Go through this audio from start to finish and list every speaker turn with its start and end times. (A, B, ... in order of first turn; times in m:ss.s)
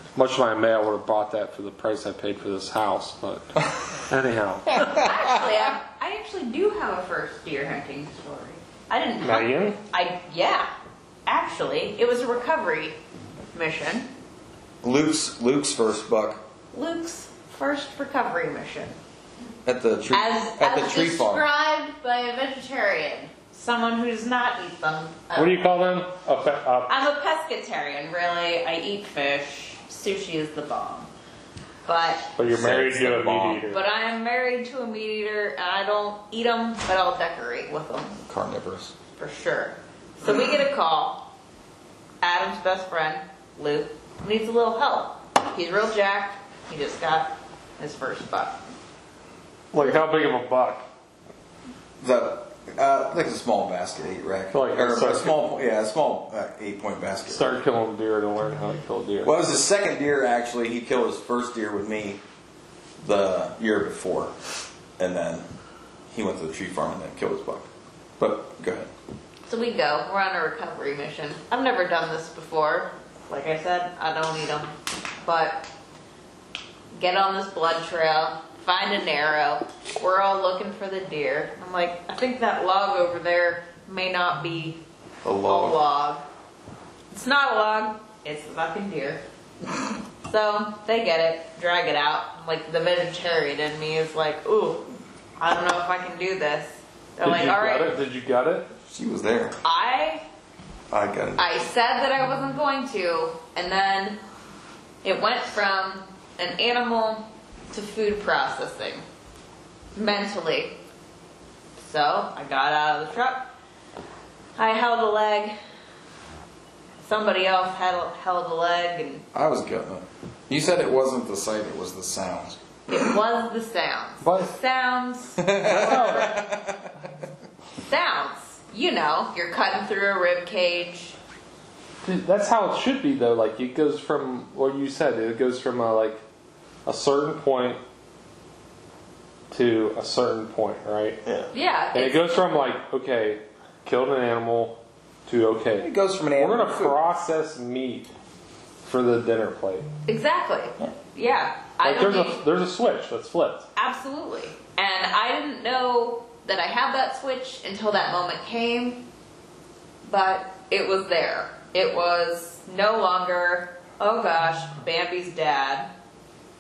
0:00.2-0:04.8 A
0:04.7-0:05.4 B
0:04.8-0:10.7 C
0:09.2-0:09.8 A
0:11.3-0:13.0 C
0:13.5-0:14.1 C
0:14.8-0:16.4 B
0:16.7-0:19.0 C
0:19.6-0:21.5 B
0:20.1-0:25.7 C
0:25.4-0:26.9 A
0:26.9-0:31.1 C
0:31.9-0:32.4 C
0:32.4-0:33.8 A
0:32.5-0:33.6 B
0:33.7-0:38.2 C
0:38.2-0:39.0 B
0:39.2-0:41.2 C
0:42.2-0:48.6 C
0:49.7-0:50.9 A
0:52.0-0:57.6 B
0:54.5-0:55.4 A
0:57.3-0:59.4 A
0:59.2-1:02.2 B
1:03.0-1:04.4 B
1:05.0-1:05.5 B
1:06.1-1:08.9 B
1:09.5-1:15.7 C
1:17.0-1:24.8 C
1:25.2-1:25.8 B
1:25.4-1:26.2 C
1:27.1-1:29.2 C
1:30.2-1:34.8 C
1:35.4-1:37.9 C
1:37.2-1:38.7 A
1:38.9-1:39.6 B
1:39.6-1:40.2 C
1:40.9-1:41.6 B
1:41.4-1:44.2 C
1:45.0-1:49.0 C
1:50.0-1:50.8 C
1:51.8-1:53.5 C
1:54.6-1:55.6 C
1:57.0-1:59.2 C
1:59.3-2:02.6 B
2:02.9-2:06.3 C
2:04.2-2:04.5 A
2:05.4-2:07.0 B
2:05.6-2:06.4 A
2:07.9-2:11.2 C
2:12.0-2:16.2 A
2:16.9-2:17.8 A
2:19.5-2:21.2 A
2:21.2-2:21.5 B
2:21.5-2:22.2 C
2:21.9-2:28.1 A
2:25.8-2:27.0 B
2:28.8-2:29.9 A
2:30.1-2:32.4 C
2:31.8-2:33.7 A
2:33.8-2:39.0 C
2:40.1-2:45.9 C